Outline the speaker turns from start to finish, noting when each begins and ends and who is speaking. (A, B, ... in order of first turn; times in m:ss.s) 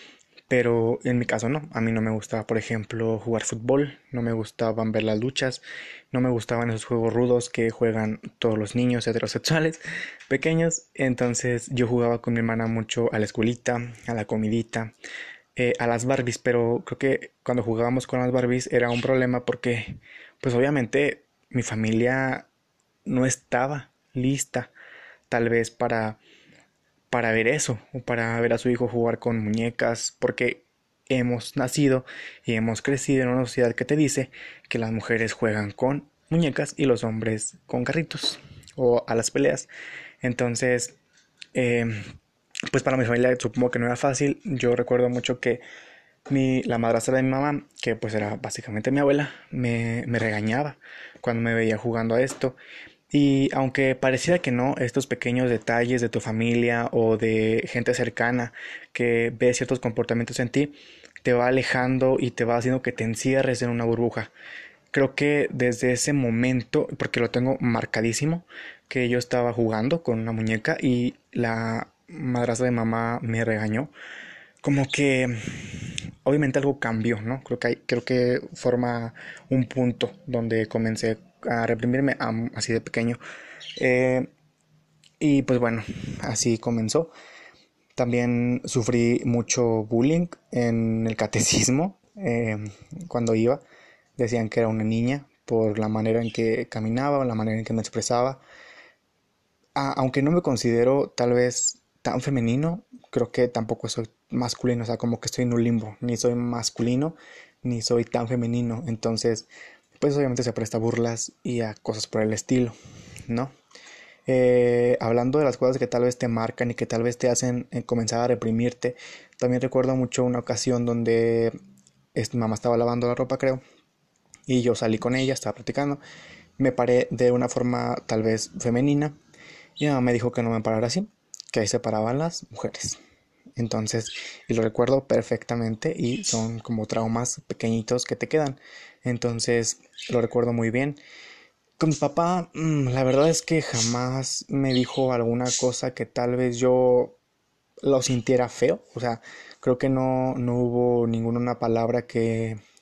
0:00.5-0:14.9 A
0:15.6-0:22.5 A
0:23.1-0:24.7 A
0:25.3-0:26.2 A
0:27.1-0:39.7 A
0:40.2-0:41.0 A
0:41.5-0:42.0 A
0:42.7-0:45.6 A
0:46.3-0:52.6 A
0:53.1-1:04.3 A
1:04.9-1:13.9 A
1:14.6-1:23.2 A
1:23.8-1:24.3 A
1:25.2-1:27.1 A
1:28.0-1:33.6 A
1:34.2-1:38.4 A
1:39.8-1:49.5 A
1:50.0-1:52.8 A
1:53.3-1:53.5 A
1:54.3-2:01.6 A
2:02.2-2:03.6 A
2:04.5-2:06.0 A
2:06.6-2:09.2 A
2:09.8-2:13.0 A
2:13.6-2:21.0 A
2:21.8-2:27.2 A
2:27.8-2:32.6 A